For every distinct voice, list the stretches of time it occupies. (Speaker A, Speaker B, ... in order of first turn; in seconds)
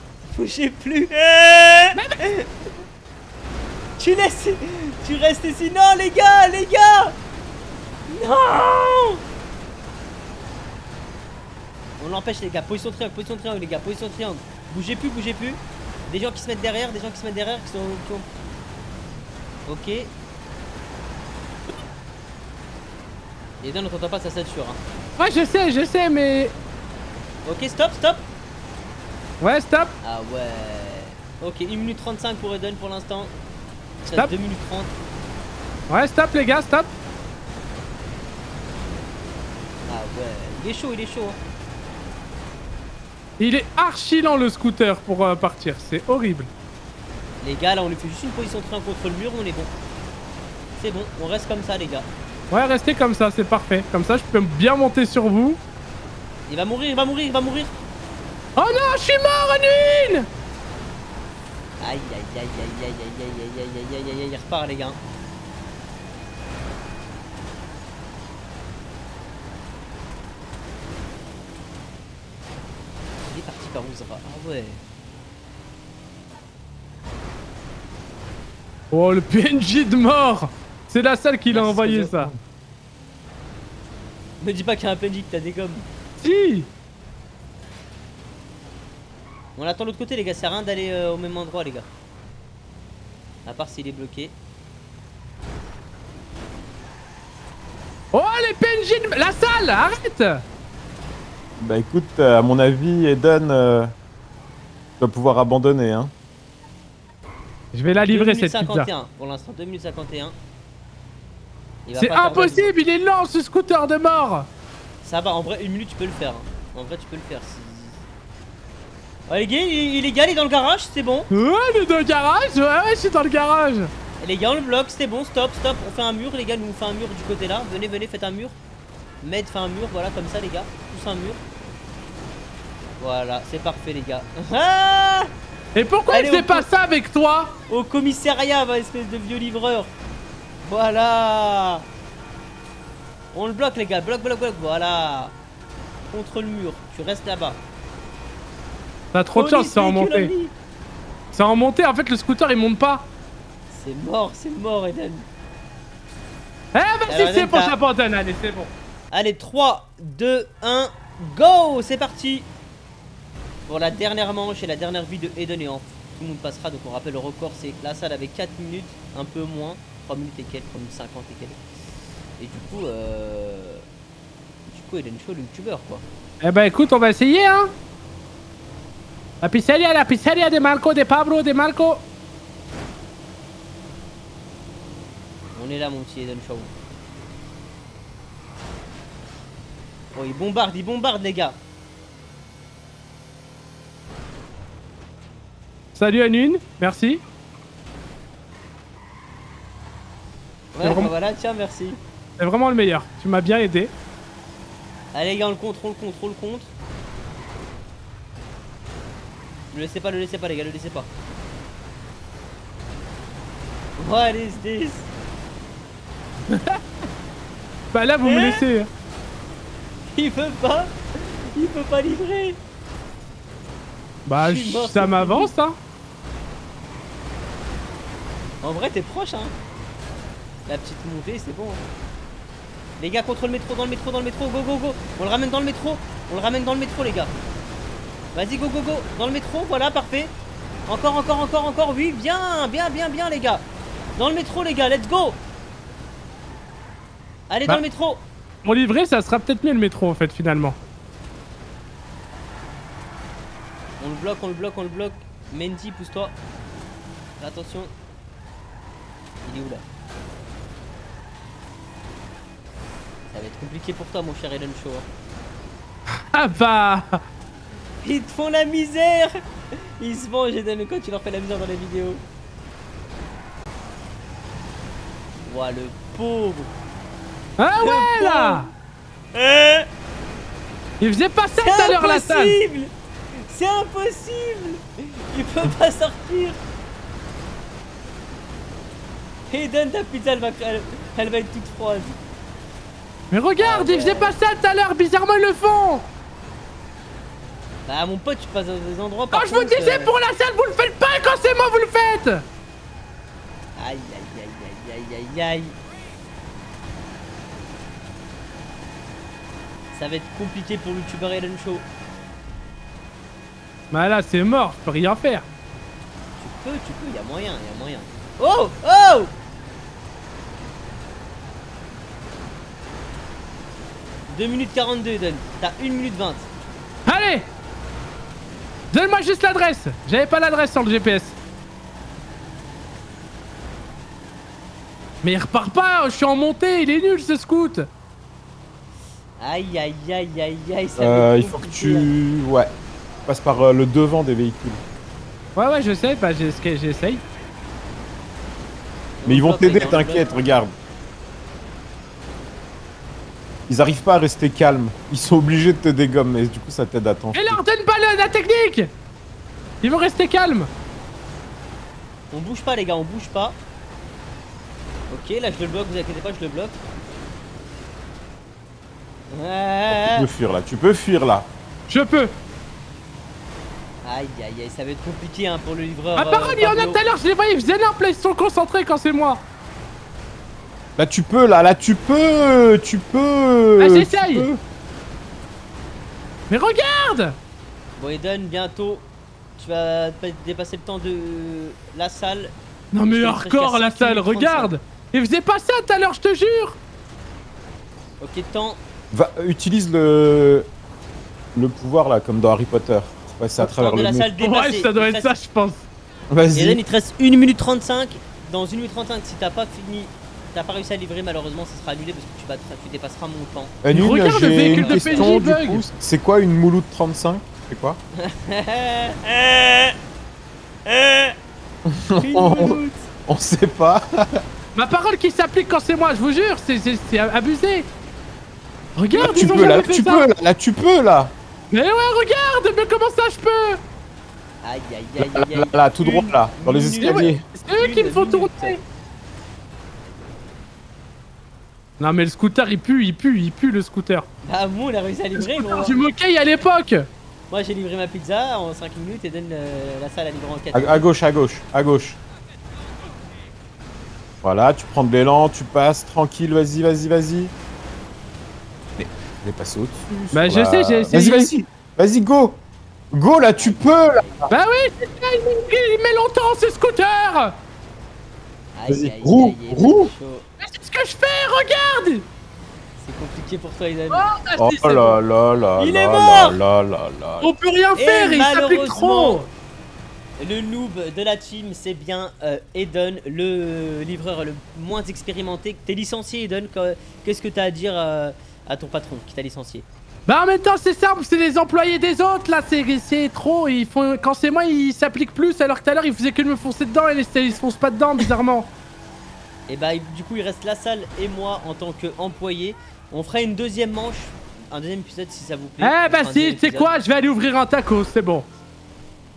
Speaker A: 0.2-2.5, 4.0-7.2, 8.1-9.2, 12.0-18.3, 19.7-20.1, 23.6-24.8, 27.4-28.2, 30.0-33.3, 34.0-34.9, 39.9-41.4, 47.4-49.7, 50.8-52.1, 56.5-57.8, 61.8-65.0, 73.3-74.8, 81.5-82.3, 84.4-85.9, 89.6-91.9, 93.4-94.3, 108.1-110.3, 111.8-112.7, 115.0-118.0, 119.3-121.3, 124.2-128.6, 129.2-131.4, 133.0-135.3, 136.1-136.6, 137.7-139.9, 140.6-141.8, 143.3-145.3, 146.1-147.6, 149.3-150.5, 153.7-155.2, 157.1-157.7, 159.1-162.5, 163.7-171.6, 172.4-173.8, 174.7-176.0, 185.6-186.7, 190.1-191.6, 200.7-202.0, 205.1-206.7, 209.7-211.1, 214.0-215.1, 218.2-218.6, 220.1-222.6, 224.4-225.5, 228.6-229.5, 230.7-231.8, 233.0-237.3, 238.3-240.3, 240.9-243.6, 244.2-245.4, 247.5-248.2, 254.0-256.3, 257.4-257.9, 259.4-259.8, 263.3-265.1, 268.0-272.2, 275.5-276.7, 277.8-278.7, 279.3-279.9, 281.6-282.9, 283.4-286.6, 289.5-292.2, 293.6-294.4, 297.9-300.1, 303.8-305.8, 309.9-311.8, 316.4-319.3, 324.3-326.5, 339.4-342.1, 349.2-350.3, 362.3-363.6, 365.1-366.8, 369.3-370.3, 374.0-377.0, 388.0-389.1, 389.6-392.5, 393.1-394.7, 398.2-398.8, 403.6-405.3, 406.5-413.8, 414.5-415.4, 418.1-420.0, 420.9-421.4, 422.2-423.1, 434.6-438.8, 444.4-446.0, 447.5-451.1, 463.5-464.5, 468.7-470.4, 473.0-474.3, 475.8-476.6, 477.9-479.4, 480.4-489.8, 499.7-506.9
Speaker B: 25.2-26.5, 29.4-29.9, 35.9-36.9, 43.4-46.5, 52.5-55.6, 58.6-60.3, 78.9-82.3, 86.2-86.7, 98.1-100.4, 107.7-108.9, 112.0-114.5, 121.3-123.9, 135.7-137.5, 149.1-150.3, 151.3-153.1, 156.7-158.7, 176.4-177.7, 179.4-182.0, 195.9-197.2, 200.8-201.1, 202.4-203.9, 216.5-216.8, 217.9-218.9, 224.2-225.8, 248.6-250.8, 266.3-267.2, 277.6-278.7, 281.0-282.6, 293.3-296.1, 299.3-302.4, 313.9-315.4, 327.1-327.5, 328.9-331.4, 335.2-337.9, 345.6-347.2, 357.3-358.9, 359.8-360.7, 371.9-372.3, 376.1-379.4, 383.8-384.5, 386.5-387.4, 392.9-396.8, 404.4-405.9, 413.9-415.8, 424.7-427.9, 429.0-430.3, 431.7-433.8, 437.0-438.8, 442.0-444.3, 445.4-447.1, 460.3-461.5, 464.5-467.6, 470.6-472.2, 474.1-475.2, 477.4-479.5, 490.3-498.7, 505.8-508.5
Speaker C: 101.6-103.9, 105.0-106.1, 341.0-342.7, 343.2-344.8, 349.2-350.7, 353.7-357.6, 369.9-371.5, 381.0-384.6, 399.1-400.7, 401.5-404.3, 406.3-406.8, 413.8-418.0, 421.9-424.4, 429.1-431.3, 435.2-437.4, 450.7-452.2, 454.4-457.5, 458.9-462.6, 463.1-464.5, 468.9-470.1, 474.6-477.5